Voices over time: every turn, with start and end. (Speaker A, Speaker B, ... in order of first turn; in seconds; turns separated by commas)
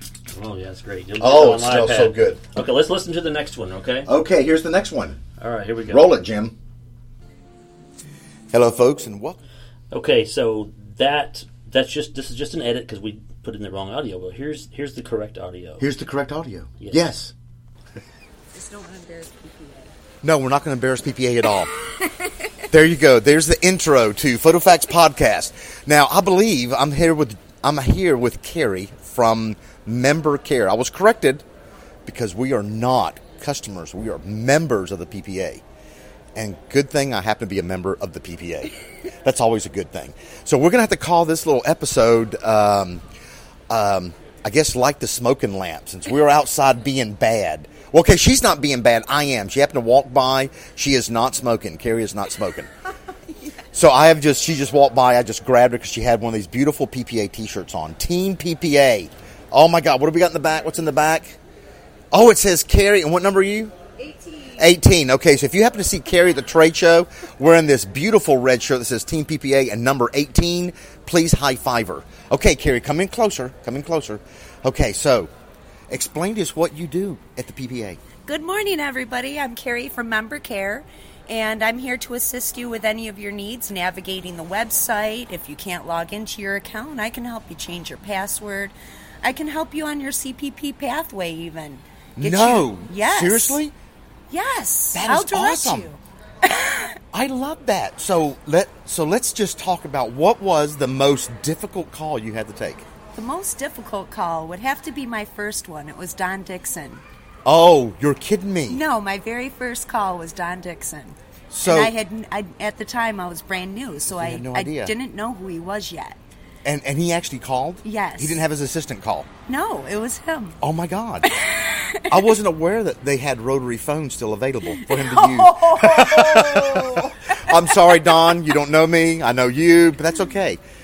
Speaker A: 0.3-4.1, Speaker B: 1.2-2.4, Speaker B: 4.0-5.2, Speaker A: 5.4-6.1, Speaker B: 5.9-6.5, Speaker B: 8.5-9.4, Speaker A: 9.9-15.8, Speaker B: 15.8-17.3, Speaker C: 18.5-19.9, Speaker B: 20.2-21.7, Speaker B: 22.7-31.4, Speaker B: 32.0-35.6, Speaker B: 36.3-43.0, Speaker B: 43.7-52.7, Speaker B: 53.7-61.4, Speaker B: 62.1-63.7, Speaker B: 64.5-75.3, Speaker B: 75.9-78.0, Speaker C: 78.2-93.6, Speaker B: 92.2-93.7, Speaker C: 94.3-96.9, Speaker B: 94.9-95.9, Speaker B: 97.1-102.8, Speaker C: 103.1-107.0, Speaker B: 107.4-108.8, Speaker C: 108.7-116.2, Speaker B: 111.5-111.9, Speaker B: 114.1-114.9, Speaker B: 116.6-119.3, Speaker C: 117.8-118.4, Speaker C: 119.5-120.6, Speaker B: 120.6-121.3, Speaker C: 121.3-122.0, Speaker B: 122.1-130.6, Speaker C: 124.7-127.3